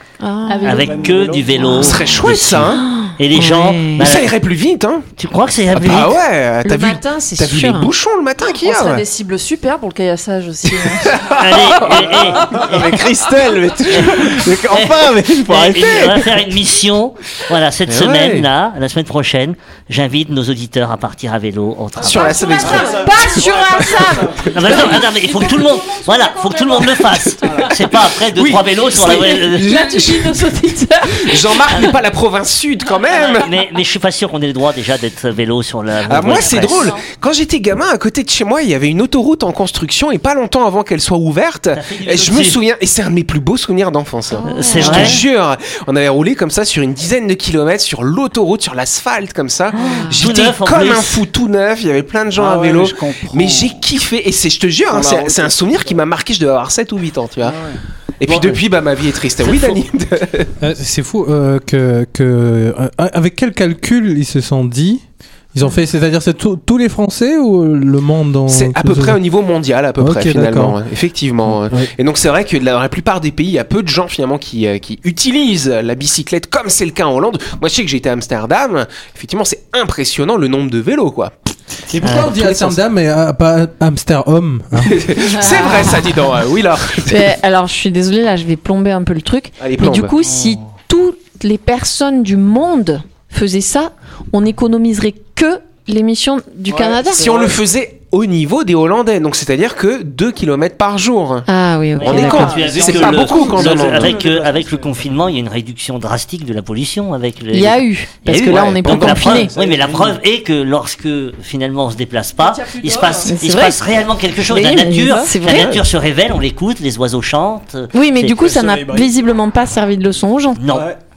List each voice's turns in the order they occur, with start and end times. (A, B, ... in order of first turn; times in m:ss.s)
0:00.2-0:00.8 A
0:00.5-0:00.9 B
0:00.6-0:04.3 C
0:00.7-0:01.8 D
0:01.6-0:01.9 A
0:01.8-0:02.8 E
0:02.7-0:04.1 A
0:04.0-0:05.1 E
0:05.2-0:06.2 C
0:05.7-0:09.0 E
0:06.6-0:07.9 A
0:08.5-0:11.2 B
0:10.8-0:11.4 E
0:11.3-0:13.0 C
0:11.9-0:16.3 D
0:13.9-0:22.7 C
0:17.9-0:18.5 E
0:22.0-0:25.0 E
0:22.2-0:24.4 A
0:22.6-0:24.5 D
0:24.5-0:29.9 C
0:26.1-0:26.9 A
0:27.4-0:27.7 D
0:28.3-0:30.5 E
0:29.7-0:31.3 A
0:31.1-0:33.5 E
0:31.7-0:32.0 C
0:33.1-0:36.9 C
0:36.0-0:57.6 E
0:41.7-0:42.6 C
0:44.3-0:45.2 A
0:44.5-0:45.2 C
0:49.7-0:50.2 A
0:50.1-0:51.2 C
0:52.3-0:53.8 D
0:54.9-0:56.0 D
0:57.4-0:57.8 D
0:58.2-1:00.5 E
0:59.4-0:59.8 C
1:00.6-1:05.0 F
1:05.5-1:09.2 F
1:08.5-1:21.3 E
1:10.0-1:10.8 F
1:11.6-1:11.9 F
1:21.9-1:25.0 F
1:22.0-1:22.8 E
1:22.0-1:22.3 C
1:24.8-1:27.3 E
1:25.2-1:26.1 A
1:27.1-1:37.3 A
1:29.6-1:30.1 E
1:36.7-1:37.6 D
1:37.1-1:41.5 E
1:41.5-1:42.6 A
1:42.0-1:58.5 C
1:42.0-1:44.2 E
1:42.0-1:45.1 D
1:47.5-1:49.5 A
1:48.3-1:49.4 E
1:49.3-1:50.2 D
1:52.4-1:53.3 B
1:53.2-1:53.8 A
1:54.4-1:55.8 A
1:57.9-2:00.6 A
1:58.4-1:59.1 D
2:00.6-2:00.9 C
2:00.7-2:01.0 D